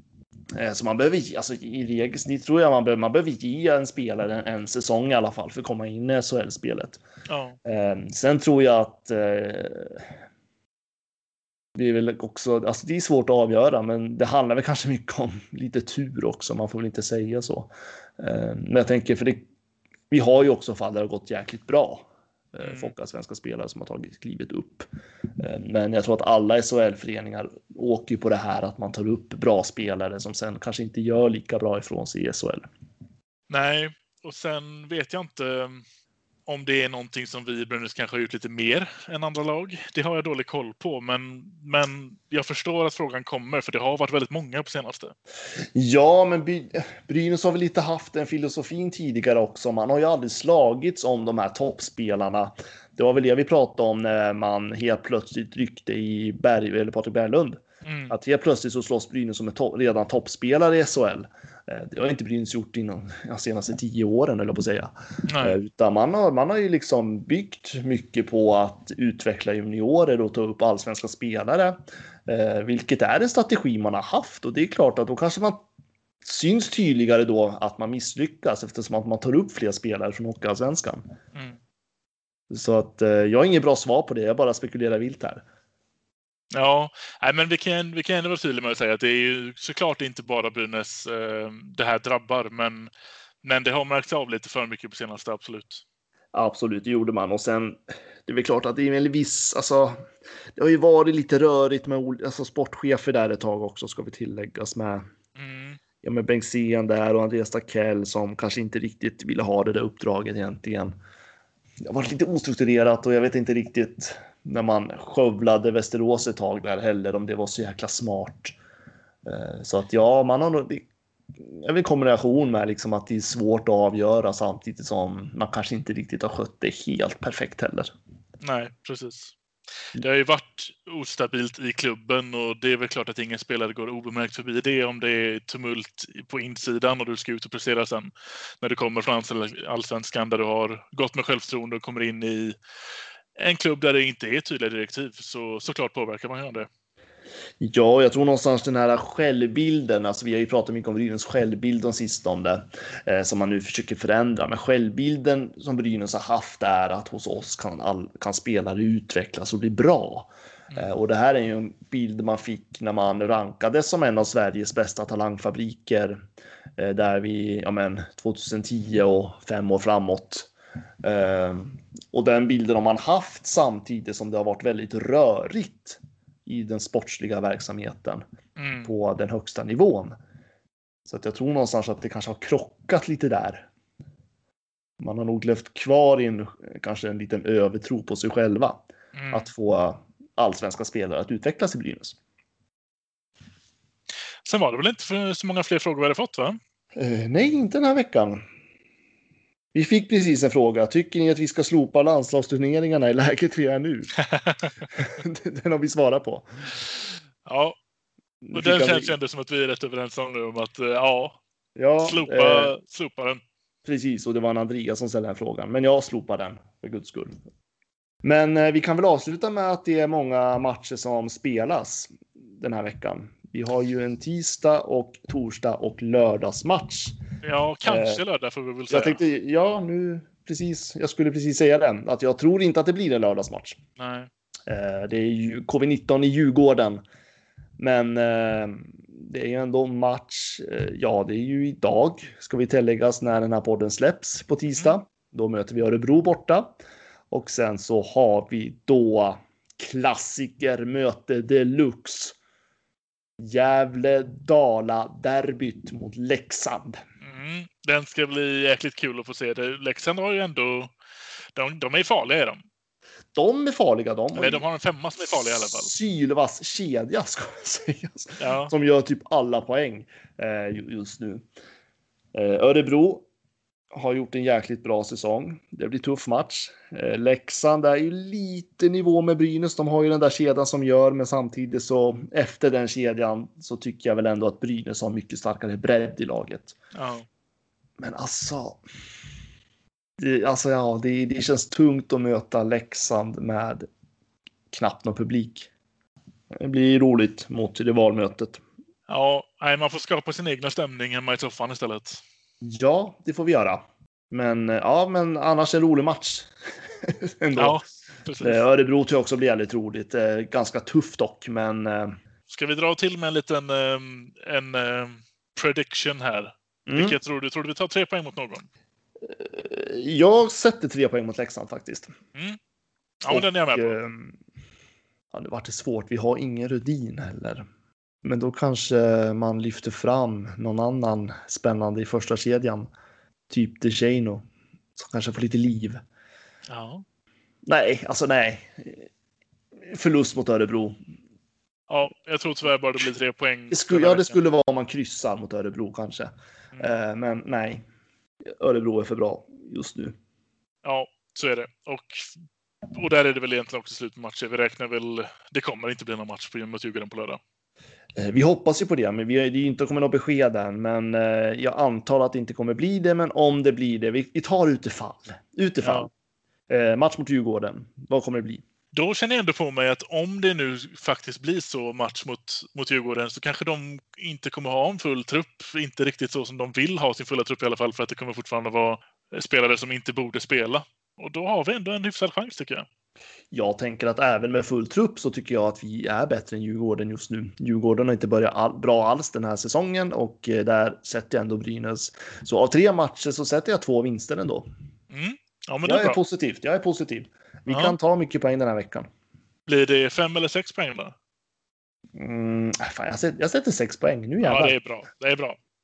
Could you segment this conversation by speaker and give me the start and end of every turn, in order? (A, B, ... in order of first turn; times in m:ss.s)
0:00.5-0:07.0 A
0:07.3-0:07.6 B
0:07.6-0:10.1 A
0:11.8-0:19.4 A
0:20.1-0:24.9 A
0:22.6-0:22.9 B
0:25.4-0:32.6 A
0:33.5-0:35.8 B
0:36.4-0:45.1 B
0:45.7-1:15.6 A
0:57.8-0:58.1 B
1:05.2-1:05.6 B
1:16.2-1:21.1 A
1:22.5-1:25.4 A
1:26.5-1:32.9 B
1:33.4-1:35.8 B
1:36.3-1:40.0 A
1:40.6-1:45.1 A
1:45.4-1:45.8 B
1:46.0-1:51.0 A
1:51.8-1:58.6 A
1:59.2-2:00.8 A
2:01.4-2:07.9 A
2:08.4-2:09.3 B
2:10.0-2:22.6 B
2:23.4-2:26.7 B
2:27.6-2:46.2 A
2:46.8-2:50.5 A
2:51.0-2:58.2 A
2:58.6-2:58.9 B
2:58.8-3:00.2 A
3:01.1-3:03.7 A
3:05.0-3:12.2 A
3:09.1-3:09.5 B
3:14.4-3:16.6 B
3:17.0-3:18.4 A
3:19.7-3:24.1 A
3:24.2-3:24.7 B
3:25.0-3:26.6 A
3:27.4-3:27.8 B
3:28.4-3:29.1 A
3:28.5-3:31.4 B
3:31.8-3:32.7 A
3:32.0-3:33.4 B
3:33.8-3:37.4 A
3:38.2-3:47.2 A
3:47.4-3:49.2 B
3:47.8-3:48.2 A
3:48.9-3:53.8 A
3:54.0-3:54.3 B
3:54.7-3:57.0 A
3:57.8-4:06.7 A
4:07.3-4:12.4 A
4:13.4-4:17.0 A
4:17.2-4:20.9 B
4:21.5-4:22.6 B
4:23.3-4:24.6 A
4:24.3-4:25.9 B
4:25.2-4:31.4 A
4:28.4-4:28.7 B
4:32.3-4:33.2 A
4:33.9-4:46.8 A
4:46.9-4:47.2 B
4:48.0-4:48.8 A
4:50.2-4:53.9 A
4:54.7-4:55.7 A
4:56.5-4:58.6 A
4:59.1-5:02.2 B
5:02.6-5:06.5 A
5:07.1-5:07.8 A
5:07.6-5:08.6 B
5:08.4-5:12.2 A
5:12.5-5:18.7 B
5:16.9-5:17.2 A
5:19.2-5:22.1 A
5:23.2-5:23.9 B
5:23.3-5:24.4 A
5:25.3-5:27.6 A
5:28.2-5:32.9 A
5:33.5-5:34.4 A
5:35.0-5:36.0 A
5:36.7-5:37.0 B
5:37.6-5:39.1 A
5:39.8-5:41.0 A
5:41.9-5:44.3 B
5:43.7-5:47.8 A
5:48.6-5:50.1 A
5:50.8-5:52.3 B
5:52.9-5:57.4 B
5:58.2-6:06.1 A
6:05.8-6:06.1 B
6:06.7-6:08.6 A
6:08.9-6:22.8 B
6:23.5-6:34.6 A
6:35.1-6:36.2 B
6:35.8-6:39.1 A
6:37.7-6:37.9 B
6:39.7-6:41.1 B
6:42.2-6:44.7 A
6:44.4-6:45.6 B